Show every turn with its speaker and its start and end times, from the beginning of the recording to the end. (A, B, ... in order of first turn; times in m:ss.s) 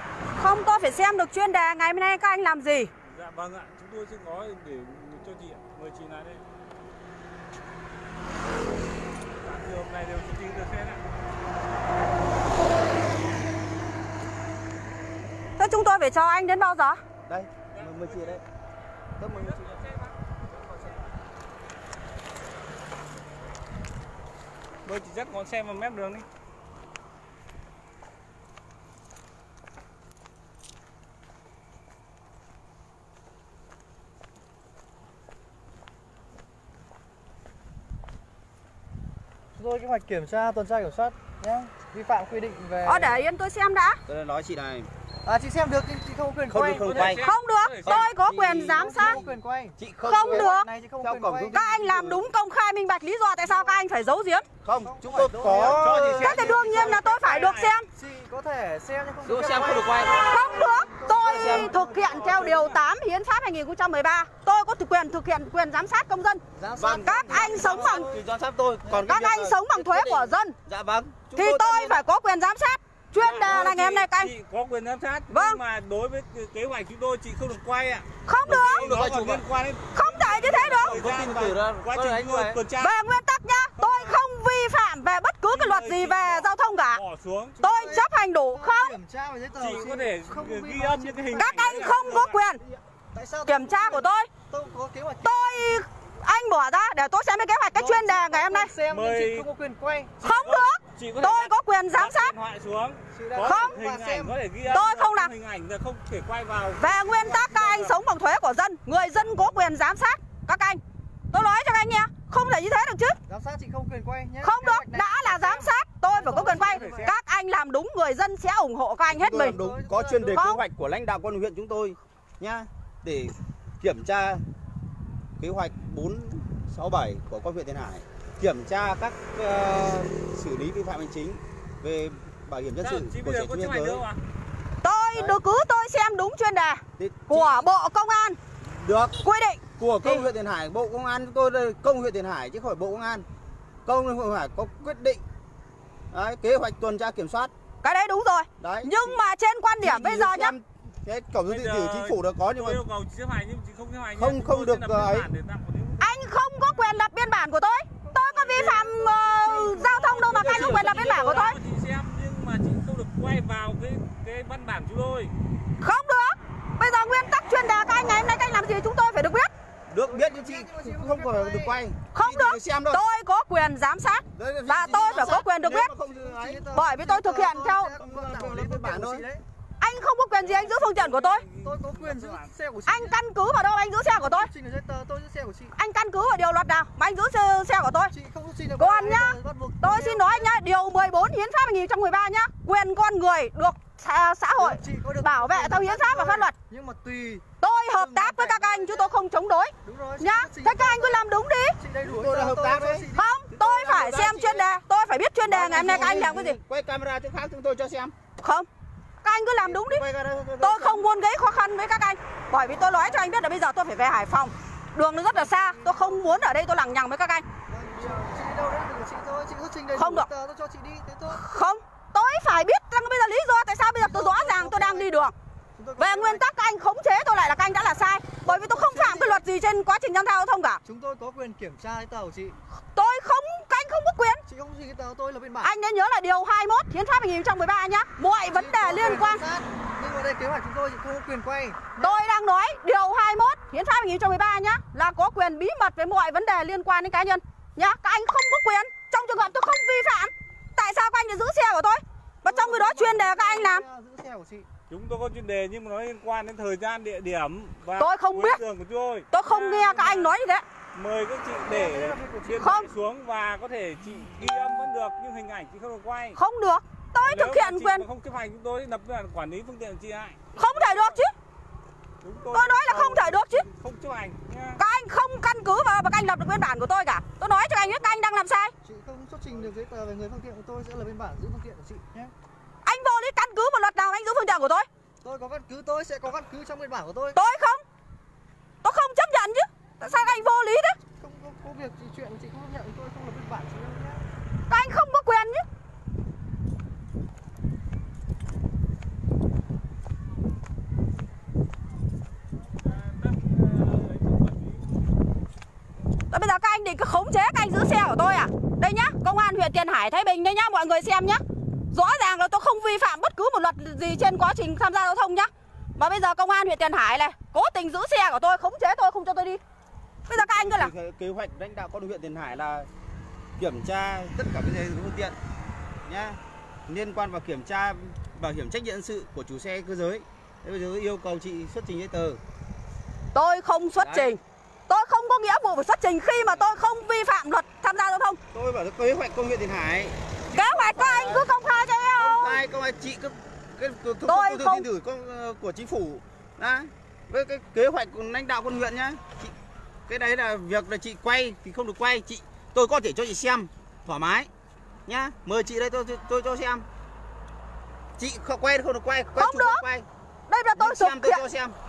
0:00.4-0:02.9 A
0:03.0-0:06.4 B
0:09.4-0:11.0 B
0:15.6-0:17.0 A
0:17.2-0:18.4 C
0:17.7-0:18.4 B
0:19.2-0:19.6 C
0:19.3-0:20.2 B
0:24.8-0:26.2 B
0:39.5-0:43.2 D
0:42.8-0:44.0 A
0:44.1-0:44.9 C
0:45.2-0:47.0 D
0:46.5-0:47.2 C
0:46.6-0:48.1 B
0:47.1-0:49.2 A
0:47.8-0:49.2 C
0:48.5-0:51.5 D
0:49.8-0:52.3 C
0:50.0-0:50.6 A
0:51.5-0:54.4 A
0:53.4-0:53.8 D
0:54.6-0:56.7 C
0:54.8-0:56.8 D
0:55.6-0:57.8 B
0:56.2-0:57.8 A
0:57.9-1:02.7 D
0:59.2-1:00.3 C
1:00.2-1:06.4 A
1:01.2-1:01.7 C
1:01.6-1:02.8 B
1:06.5-1:08.2 D
1:06.8-1:12.0 C
1:07.0-1:08.1 A
1:09.0-1:10.5 A
1:11.4-1:14.3 A
1:13.1-1:13.8 C
1:13.4-1:23.0 B
1:15.3-1:15.6 A
1:18.2-1:18.8 A
1:18.4-1:19.4 C
1:19.9-1:21.0 A
1:20.6-1:22.6 C
1:22.8-1:27.0 A
1:23.8-1:24.2 B
1:25.5-1:27.6 B
1:27.6-1:31.9 D
1:27.6-1:28.9 A
1:29.5-1:32.4 B
1:31.4-1:32.6 A
1:33.1-1:35.8 D
1:33.5-1:34.3 A
1:35.2-1:38.7 A
1:37.7-1:40.2 D
1:38.8-1:39.5 B
1:40.2-1:48.0 B
1:40.2-1:42.3 A
1:43.1-1:44.4 D
1:43.4-1:43.8 A
1:44.7-1:45.3 A
1:46.8-1:53.2 A
1:49.1-1:49.6 B
1:53.3-1:57.2 D
1:54.4-1:59.6 A
1:56.3-1:57.2 B
1:59.1-2:04.4 C
1:59.4-2:00.4 D
2:00.3-2:00.6 A
2:05.4-2:14.0 C
2:12.8-2:14.2 B
2:14.8-2:18.4 A
2:15.1-2:15.4 C
2:17.0-2:17.7 C
2:18.6-2:19.2 C
2:19.2-2:20.3 A
2:19.8-2:23.2 C
2:23.8-2:25.2 C
2:26.1-2:27.5 C
2:27.8-2:30.6 A
2:28.6-2:29.2 C
2:29.8-2:32.8 C
2:31.4-2:36.2 B
2:34.2-2:35.3 C
2:36.0-2:41.6 A
2:38.0-2:39.9 D
2:38.3-2:38.6 B
2:38.5-2:41.4 C
2:39.9-2:45.3 B
2:45.8-2:49.5 A
2:49.9-2:53.0 C
2:50.0-2:51.8 D
2:52.1-2:55.9 A
2:54.3-2:56.6 C
2:56.0-2:59.4 D
2:56.7-2:57.9 A
2:57.9-2:59.2 C
2:59.8-3:01.4 A
3:00.4-3:02.5 B
3:01.6-3:03.2 D
3:02.9-3:04.5 A
3:04.0-3:05.7 D
3:05.8-3:08.1 A
3:08.1-3:10.5 D
3:08.8-3:16.5 A
3:14.6-3:17.4 D
3:17.6-3:21.7 A
3:18.0-3:19.1 D
3:19.8-3:21.2 D
3:21.7-3:23.3 D
3:22.0-3:24.7 C
3:23.1-3:26.6 A
3:25.4-3:28.1 C
3:25.6-3:26.4 D
3:28.4-3:28.7 A
3:29.2-3:30.0 A
3:29.6-3:31.1 C
3:30.6-3:37.4 A
3:35.3-3:36.5 D
3:37.7-3:41.4 D
3:37.8-3:38.5 C
3:39.9-3:40.3 A
3:41.3-3:45.3 A
3:44.0-3:45.1 D
3:45.7-3:46.4 D
3:46.0-3:50.8 A
3:48.4-3:49.4 D
3:50.8-3:52.6 D
3:52.9-3:54.4 A
3:54.5-3:55.7 D
3:55.6-3:59.4 A
3:58.5-4:02.2 D
4:02.0-4:13.8 A
4:12.4-4:14.7 D
4:14.9-4:20.3 B
4:18.0-4:18.6 A
4:19.3-4:20.6 A
4:20.9-4:26.4 B
4:21.5-4:22.8 D
4:22.6-4:22.9 A
4:26.4-4:28.0 A
4:27.2-4:31.2 B
4:30.5-4:31.3 A
4:32.2-4:34.8 B
4:32.5-4:33.6 A
4:34.8-4:38.7 A
4:38.8-4:42.3 D
4:42.8-4:44.9 A
4:45.2-4:47.4 D
4:47.3-4:47.8 A
4:48.8-4:51.0 A
4:50.0-4:50.4 D
4:51.2-4:54.2 D
4:54.7-4:55.6 A
5:02.8-5:04.8 B
5:06.3-5:19.6 A
5:20.3-5:20.9 A
5:20.3-5:22.9 C
5:23.6-5:25.4 C
5:26.0-5:32.4 C
5:33.3-5:38.4 A
5:34.0-5:34.3 C
5:36.3-5:36.7 C
5:38.5-5:41.5 C
5:40.5-5:42.6 A
5:42.2-5:49.5 C
5:44.3-5:44.8 A
5:50.1-5:54.5 C
5:55.1-5:56.8 C
5:58.2-6:00.1 C
5:59.4-5:59.8 A
6:00.5-6:01.4 A
6:00.8-6:01.8 C